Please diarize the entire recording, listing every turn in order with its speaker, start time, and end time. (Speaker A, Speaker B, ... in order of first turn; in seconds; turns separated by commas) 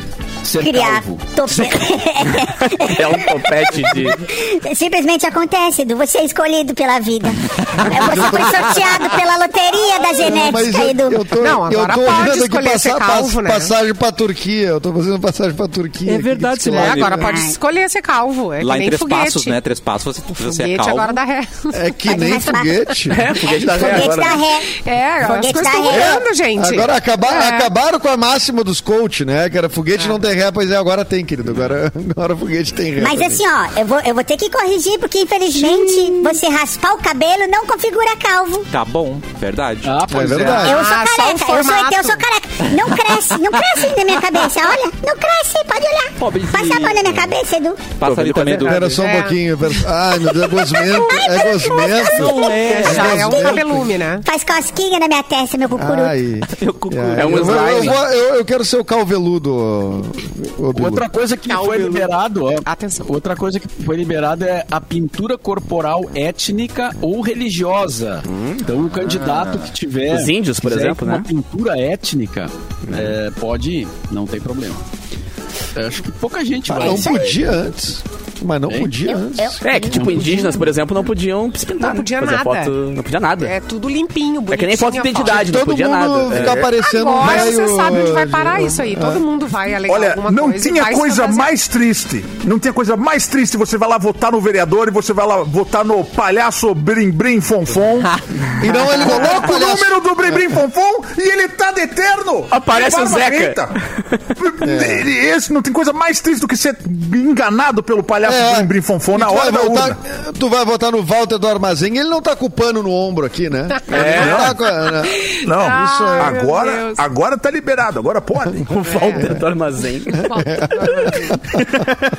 Speaker A: 0.4-1.3, Speaker B: 0.6-11.3, Speaker C: 2.4-4.2, Speaker D: 8.1-8.5, Speaker E: 10.2-17.3, Speaker F: 11.3-13.7, Speaker D: 16.0-17.2, Speaker F: 16.7-19.6, Speaker B: 17.2-17.6, Speaker D: 18.6-21.2, Speaker F: 20.3-22.1, Speaker E: 21.7-24.1, Speaker B: 22.1-24.7, Speaker C: 23.1-24.4, Speaker F: 24.7-27.7, Speaker B: 25.2-26.2, Speaker E: 25.8-33.4, Speaker B: 33.0-38.7, Speaker F: 35.8-36.3, Speaker D: 38.7-40.1, Speaker A: 39.8-40.7, Speaker E: 40.1-40.8, Speaker B: 40.6-47.8, Speaker F: 40.6-42.2, Speaker D: 42.6-43.5, Speaker D: 46.2-47.2, Speaker D: 48.0-48.8, Speaker C: 48.0-49.0, Speaker E: 48.6-53.8, Speaker F: 49.0-49.4, Speaker B: 50.5-52.6, Speaker D: 52.0-53.9, Speaker F: 52.6-54.3, Speaker B: 54.2-56.2, Speaker E: 55.7-61.0, Speaker D: 56.5-57.9, Speaker C: 57.2-58.0, Speaker A: 60.7-74.8, Speaker F: 61.5-61.9, Speaker D: 61.6-62.0, Speaker F: 62.7-63.1, Speaker C: 68.3-68.6, Speaker D: 69.0-69.7, Speaker C: 70.1-71.3, Speaker A: 75.8-77.5, Speaker B: 76.7-77.3, Speaker E: 76.7-80.5, Speaker A: 78.7-79.0, Speaker B: 79.1-79.6, Speaker C: 79.6-83.5, Speaker A: 79.9-80.5, Speaker F: 81.8-85.7, Speaker C: 84.5-86.7, Speaker E: 85.2-89.2, Speaker F: 86.6-91.5, Speaker G: 89.9-98.1, Speaker E: 98.6-100.5, Speaker G: 98.8-103.8, Speaker C: 102.5-103.6, Speaker G: 104.3-110.0, Speaker E: 104.6-105.1, Speaker E: 108.2-116.4, Speaker C: 113.9-114.5, Speaker G: 114.0-114.6, Speaker F: 115.2-117.0, Speaker G: 115.4-118.8, Speaker C: 118.7-121.6, Speaker F: 118.8-119.4, Speaker F: 120.2-121.4, Speaker E: 120.3-121.9